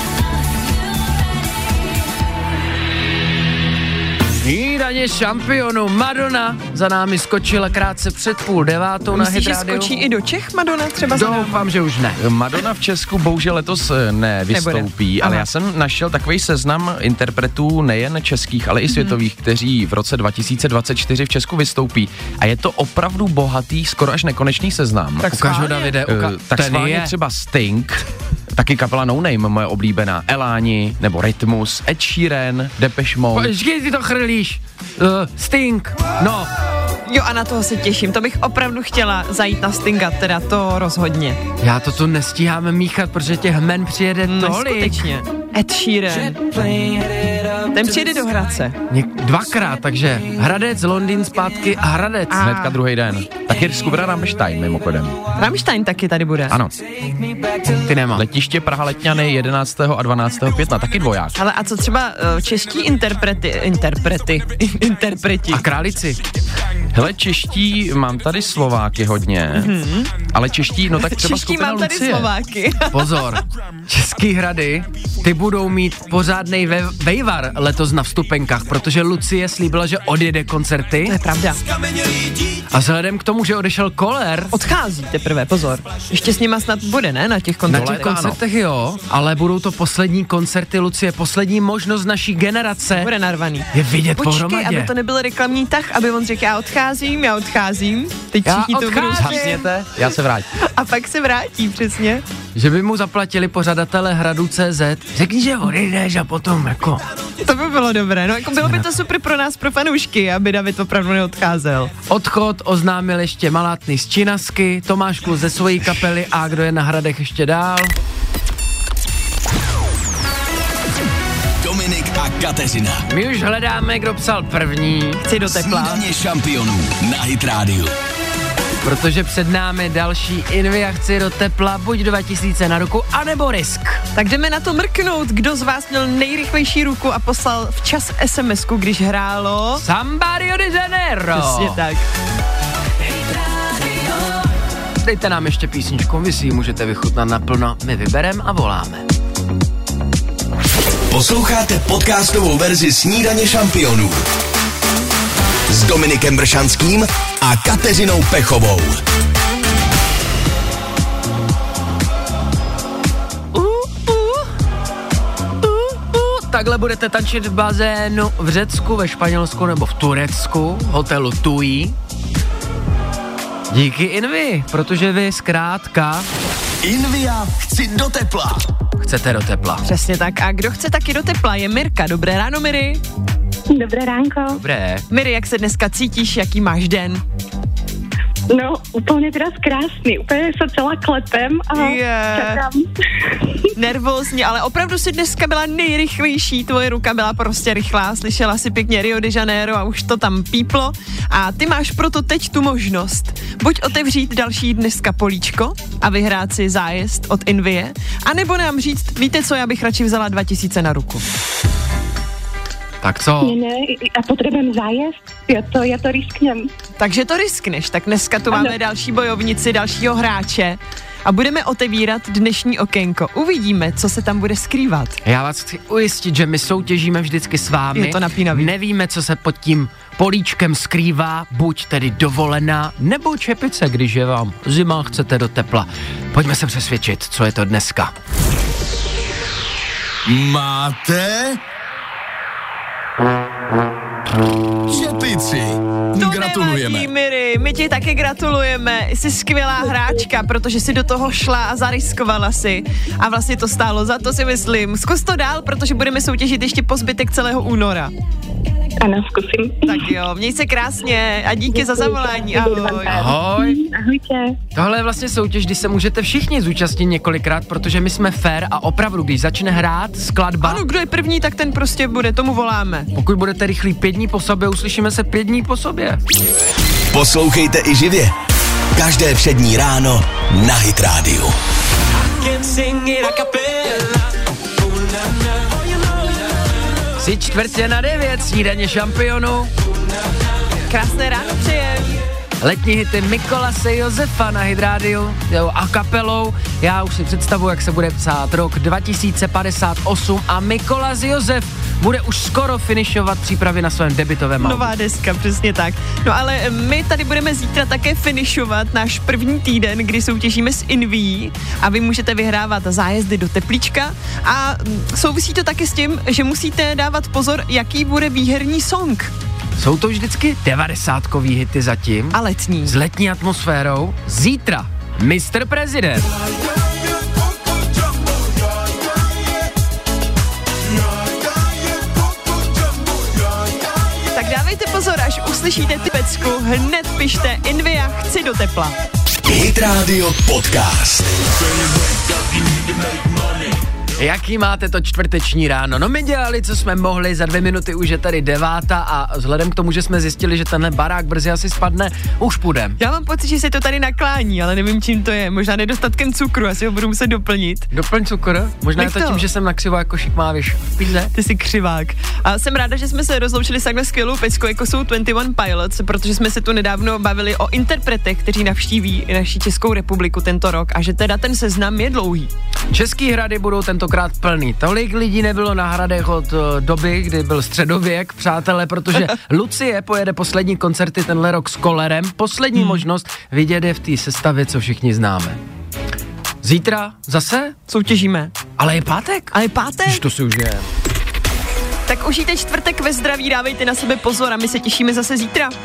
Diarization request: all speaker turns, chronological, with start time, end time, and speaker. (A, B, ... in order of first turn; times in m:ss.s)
0:04.4-0:10.0 A
0:09.1-0:11.6 B
0:11.1-0:12.2 A
0:12.2-0:33.5 C
0:14.5-0:15.4 B
0:25.2-0:27.1 A
0:25.2-0:26.0 B
0:33.3-0:36.5 A
0:37.0-0:41.4 B
0:41.6-0:45.1 A
0:44.2-0:46.4 B
0:47.7-0:48.8 B
0:48.9-0:52.5 A
0:52.3-0:52.8 B
0:52.3-0:55.2 C
0:55.4-0:56.6 B
0:56.5-0:56.7 C
0:57.7-0:58.2 A
0:58.1-1:01.4 C
1:01.4-1:05.6 B
1:05.5-1:06.2 A
1:06.9-1:09.7 C
1:09.5-1:10.1 B
1:10.3-1:12.3 C
1:11.0-1:13.4 B
1:12.9-1:21.2 A
1:21.0-1:21.6 B
1:22.7-1:24.6 A
1:24.5-1:28.3 B
1:27.7-1:28.4 C
1:27.7-1:33.1 A
1:33.0-1:39.7 B
1:33.7-1:34.9 A
1:38.4-1:40.5 C
1:40.6-1:42.2 B
1:42.5-1:47.0 A
1:47.4-1:51.9 B
1:52.0-1:57.9 A
2:01.6-2:03.1 D
2:03.1-2:05.3 A
2:05.3-2:06.0 B
2:05.4-2:07.9 D
2:08.8-2:14.0 A
2:14.1-2:19.8 B
2:19.7-2:21.8 A
2:21.3-2:22.0 B
2:25.0-2:29.1 A
2:31.1-2:34.3 D
2:35.7-2:39.0 D
2:43.5-2:44.5 A
2:45.6-2:52.0 A
2:53.7-2:56.3 A
2:56.8-2:58.6 D
2:59.0-2:59.8 A
2:59.8-3:03.0 B
3:03.7-3:04.6 E
3:04.6-3:05.0 A
3:05.1-3:07.2 B
3:08.5-3:12.8 E
3:11.8-3:12.6 B
3:13.8-3:31.2 B
3:33.0-3:33.6 A
3:33.4-3:36.6 E
3:37.0-3:45.2 B
3:45.2-3:58.1 A
3:47.9-3:48.7 B
4:00.2-4:01.6 D
4:04.9-4:07.1 D
4:06.2-4:18.1 B
4:19.0-4:20.2 E
4:19.8-4:23.3 B
4:21.7-4:24.6 E
4:23.1-4:23.8 A
4:24.7-4:30.8 A
4:30.6-4:33.1 B
4:33.1-4:36.2 A
4:37.1-4:38.4 D
4:38.9-4:41.6 D
4:42.6-4:43.9 A
4:47.2-4:49.7 A
4:50.9-4:52.2 B
4:52.6-5:04.9 A
5:04.6-5:19.3 B
5:19.8-5:26.3 A
5:22.3-5:23.0 B
5:34.3-5:39.0 B
5:39.4-5:41.5 D
5:42.4-5:43.8 D
5:44.2-5:53.0 A
5:53.0-5:57.9 B
5:57.9-6:01.3 A
5:59.0-5:59.4 B
6:01.3-6:12.5 B
6:12.9-6:25.6 A
6:22.7-6:23.0 B
6:26.6-6:27.7 A
6:27.9-6:28.6 B
6:28.8-6:29.5 A
6:29.5-6:30.2 B
6:30.1-6:30.9 A
6:32.1-6:35.8 B